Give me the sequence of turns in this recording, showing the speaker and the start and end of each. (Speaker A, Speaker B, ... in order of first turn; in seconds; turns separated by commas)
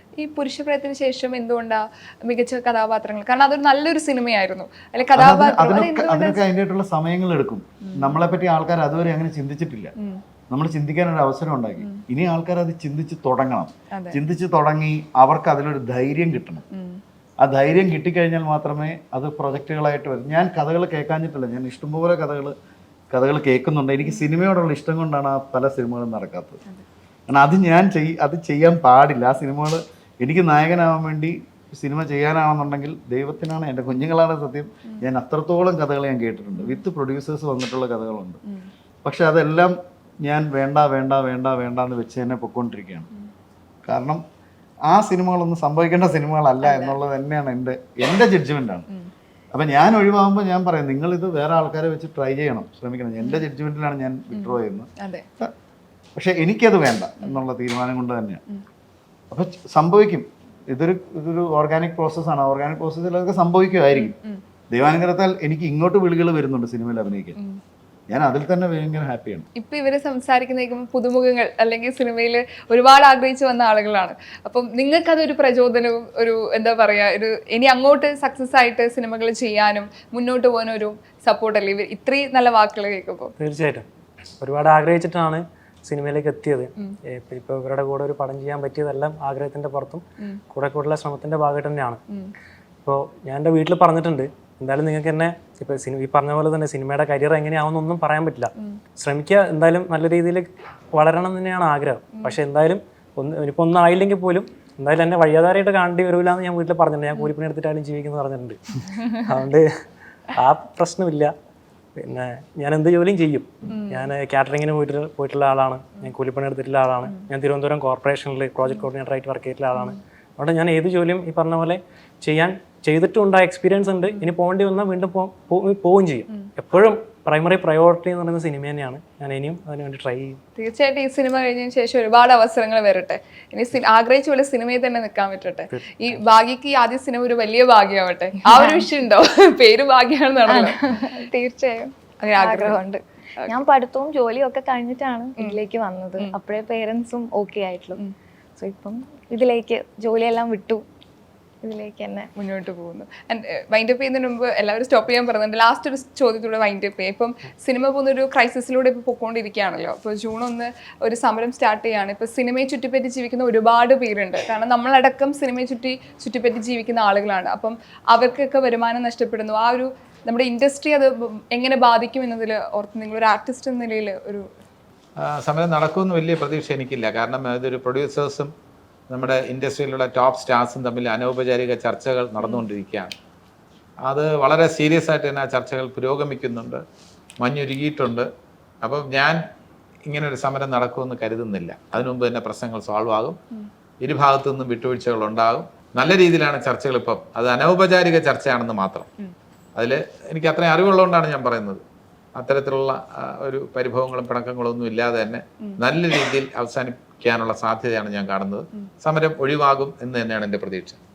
Speaker A: 0.2-6.4, Speaker B: 5.2-9.9, Speaker A: 7.8-8.2, Speaker B: 10.5-16.6, Speaker A: 16.7-17.0, Speaker B: 17.4-22.6, Speaker B: 23.1-26.6, Speaker B: 27.3-38.4, Speaker B: 39.0-43.1, Speaker B: 43.9-44.2, Speaker B: 44.9-48.9, Speaker A: 46.6-47.0, Speaker B: 49.5-55.5, Speaker A: 54.3-55.3, Speaker B: 56.1-58.4, Speaker B: 59.3-64.1, Speaker A: 64.0-64.4, Speaker B: 64.7-67.4, Speaker B: 68.1-69.5, Speaker A: 69.6-83.3, Speaker C: 83.4-83.9, Speaker C: 84.4-92.0, Speaker C: 92.8-109.7, Speaker A: 102.1-102.4, Speaker C: 110.3-111.3, Speaker C: 112.0-130.4, Speaker A: 113.7-114.1, Speaker A: 130.6-141.2, Speaker C: 135.8-136.1, Speaker D: 138.4-138.8, Speaker D: 140.5-148.0, Speaker A: 142.2-142.8, Speaker D: 148.6-150.8, Speaker D: 151.6-152.3, Speaker A: 152.4-174.5, Speaker E: 175.2-178.5, Speaker E: 179.1-183.1, Speaker E: 184.1-186.8, Speaker E: 187.4-188.3, Speaker E: 188.8-189.4, Speaker E: 190.1-193.4, Speaker E: 194.0-199.1, Speaker E: 199.8-201.8, Speaker E: 202.4-211.0